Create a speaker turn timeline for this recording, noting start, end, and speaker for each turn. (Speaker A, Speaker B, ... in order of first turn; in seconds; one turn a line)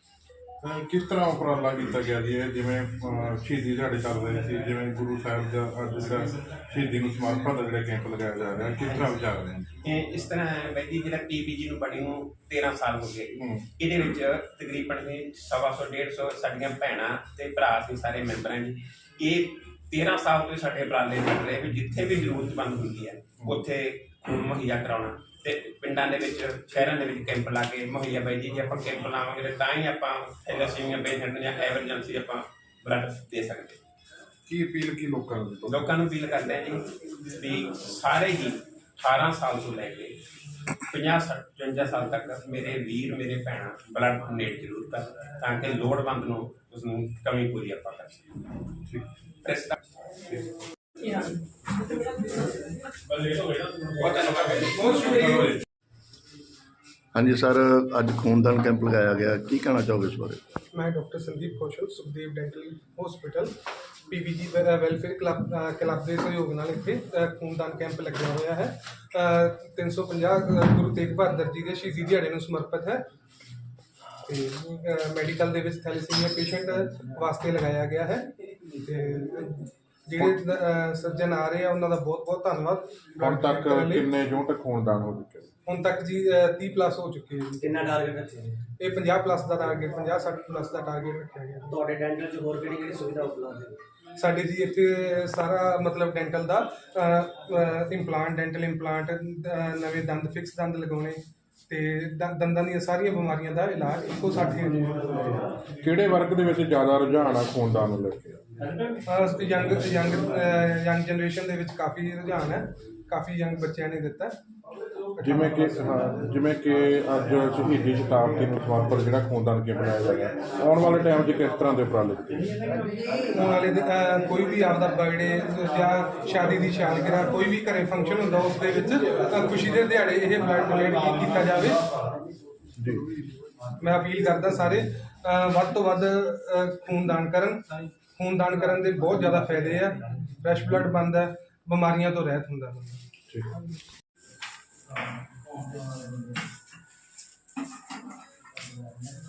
Speaker A: 0.6-9.7
Speaker B: 9.8-33.8
Speaker A: 13.4-13.7
Speaker A: 34.5-35.8
Speaker B: 35.7-40.2
Speaker B: 40.9-48.2
Speaker B: 49.4-49.8
Speaker B: 51.0-51.3
Speaker B: 53.1-55.5
Speaker C: 54.6-55.6
Speaker A: 55.2-55.6
Speaker D: 57.1-60.4
Speaker C: 60.7-63.5
Speaker C: 64.1-73.0
Speaker C: 74.2-84.1
Speaker A: 83.2-85.5
Speaker C: 85.7-87.7
Speaker E: 87.6-88.6
Speaker C: 88.8-91.8
Speaker E: 91.7-93.8
Speaker C: 94.2-105.4
Speaker A: 105.8-108.4
Speaker C: 109.0-114.4
Speaker A: 115.2-122.7
Speaker C: 123.3-131.8
Speaker A: 132.8-133.1
Speaker C: 133.8-137.6
Speaker C: 138.2-143.0